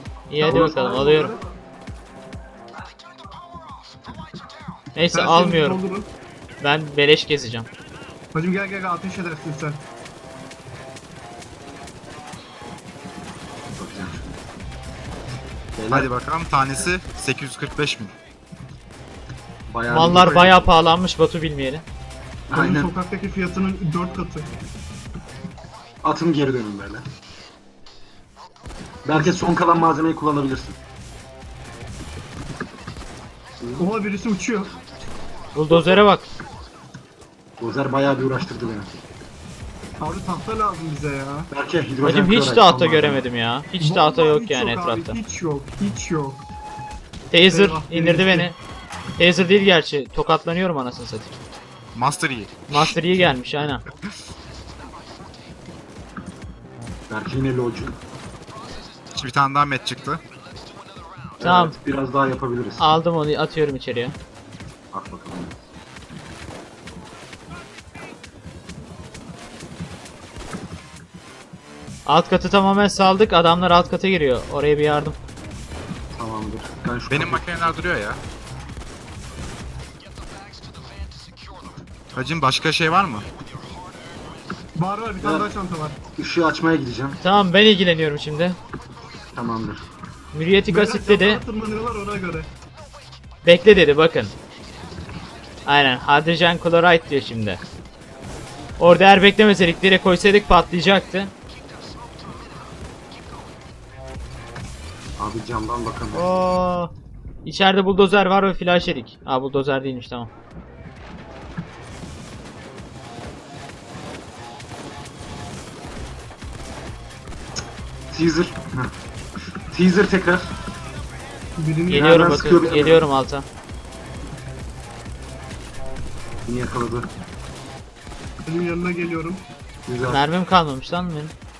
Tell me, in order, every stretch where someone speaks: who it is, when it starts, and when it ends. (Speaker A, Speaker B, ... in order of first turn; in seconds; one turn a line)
Speaker A: 0.3-1.4
Speaker B: 0.4-1.4
Speaker A: 5.0-5.8
Speaker B: 5.1-6.1
Speaker A: 6.6-7.7
Speaker B: 8.3-9.8
Speaker C: 13.8-14.4
Speaker C: 15.8-16.1
Speaker D: 15.9-18.1
Speaker C: 19.7-20.7
Speaker A: 19.9-21.8
Speaker C: 22.5-22.9
Speaker B: 22.5-24.5
Speaker C: 26.0-27.1
Speaker C: 29.1-30.8
Speaker C: 33.6-33.9
Speaker B: 33.8-34.8
Speaker A: 35.5-36.3
Speaker C: 37.6-38.9
Speaker B: 40.0-41.5
Speaker C: 41.5-43.2
Speaker A: 42.0-45.2
Speaker B: 43.8-46.4
Speaker A: 47.3-48.6
Speaker B: 47.5-48.5
Speaker A: 49.2-51.3
Speaker D: 52.0-53.0
Speaker A: 52.7-53.9
Speaker C: 57.1-58.0
Speaker D: 59.1-60.2
Speaker C: 61.4-63.0
Speaker A: 61.4-61.8
Speaker A: 62.8-64.2
Speaker C: 64.9-65.6
Speaker A: 72.1-75.2
Speaker C: 76.1-77.8
Speaker D: 77.1-78.2
Speaker D: 82.1-83.3
Speaker B: 84.8-86.0
Speaker C: 85.2-85.5
Speaker C: 86.2-87.2
Speaker A: 87.2-88.6
Speaker C: 89.3-89.9
Speaker A: 90.3-91.4
Speaker B: 90.7-92.5
Speaker A: 93.4-94.3
Speaker A: 95.7-97.6
Speaker A: 98.8-101.3
Speaker C: 105.2-106.3
Speaker A: 106.1-106.9
Speaker A: 107.4-110.3
Speaker C: 118.1-119.0
Speaker C: 119.6-120.5
Speaker B: 121.6-122.6
Speaker A: 121.9-123.5
Speaker C: 121.9-123.1
Speaker C: 126.5-127.1
Speaker B: 128.5-129.4
Speaker C: 129.9-130.2
Speaker A: 130.1-131.3